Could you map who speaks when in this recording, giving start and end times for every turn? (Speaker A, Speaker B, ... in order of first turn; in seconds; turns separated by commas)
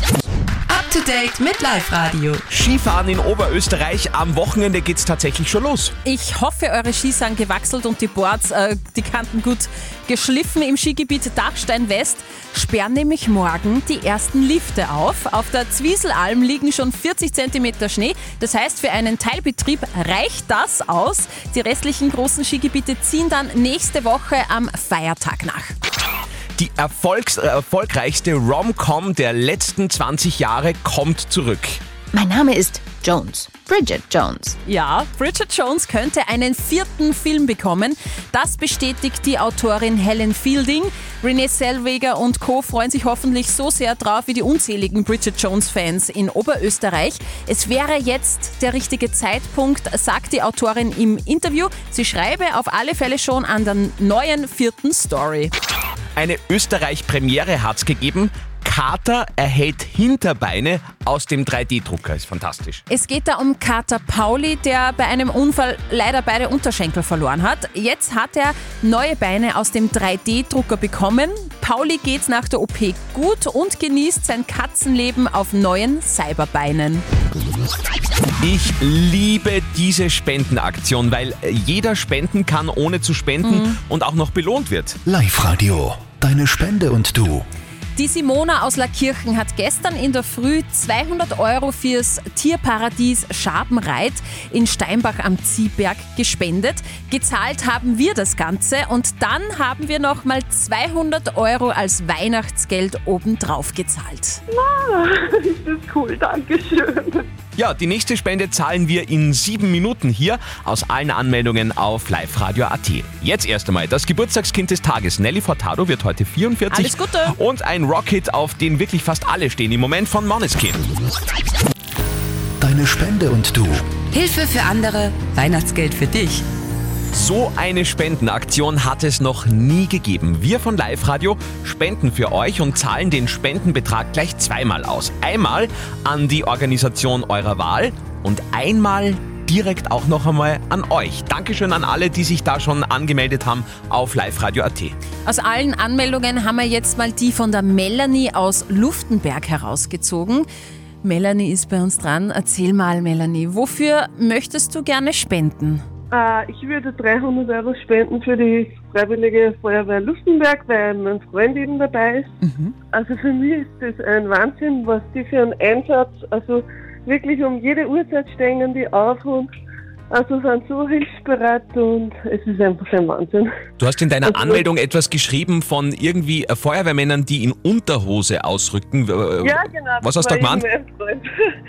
Speaker A: 0.7-2.4, Speaker B: 2.5-5.9, Speaker C: 6.0-25.8, Speaker B: 26.6-31.8, Speaker A: 32.1-34.6, Speaker C: 34.7-55.5, Speaker B: 56.2-62.8, Speaker C: 62.9-77.0, Speaker B: 78.4-85.0, Speaker C: 83.4-83.8, Speaker D: 85.1-87.5, Speaker C: 88.0-104.4, Speaker E: 104.5-107.3, Speaker B: 107.6-120.8, Speaker C: 116.7-117.3, Speaker D: 122.6-123.8, Speaker A: 124.1-126.4, Speaker B: 127.1-144.9, Speaker C: 145.3-150.5, Speaker C: 151.0-155.8, Speaker E: 156.1-162.3, Speaker E: 162.9-169.5, Speaker E: 170.1-173.5, Speaker B: 173.8-180.7, Speaker E: 174.2-174.7, Speaker E: 179.4-181.2